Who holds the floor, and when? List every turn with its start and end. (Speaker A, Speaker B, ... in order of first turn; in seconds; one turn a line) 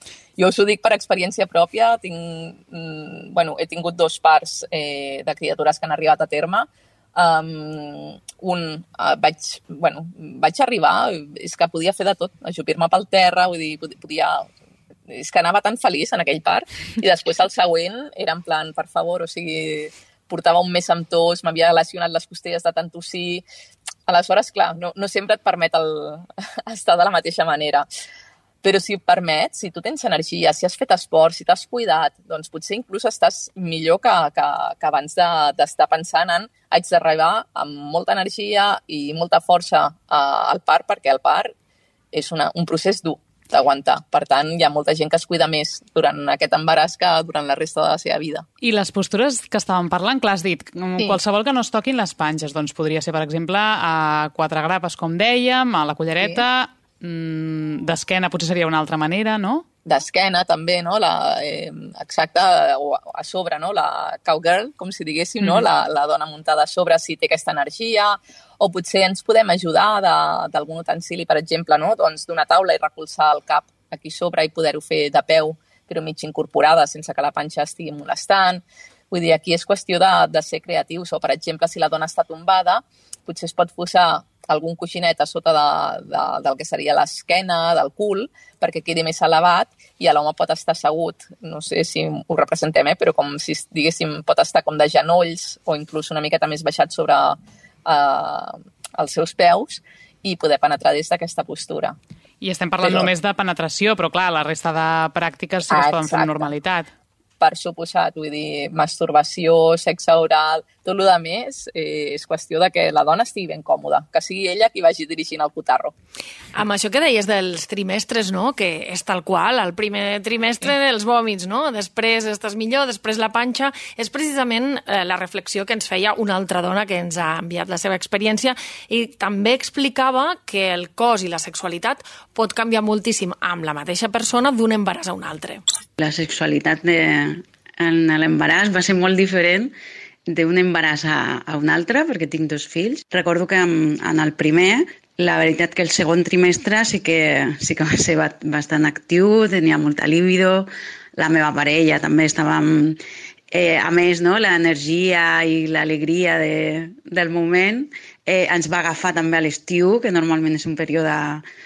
Speaker A: 0.4-14.5
Speaker A: 15.1-23.4
Speaker A: 24.1-27.9
Speaker A: 28.6-41.5
Speaker A: 42.1-48.5
Speaker B: 48.6-59.6
Speaker A: 59.9-102.0
Speaker B: 102.4-106.9
Speaker A: 102.8-103.1
Speaker A: 105.7-106.5
Speaker A: 107.4-115.9
Speaker C: 116.5-135.6
Speaker D: 136.0-139.7
Speaker D: 140.3-161.4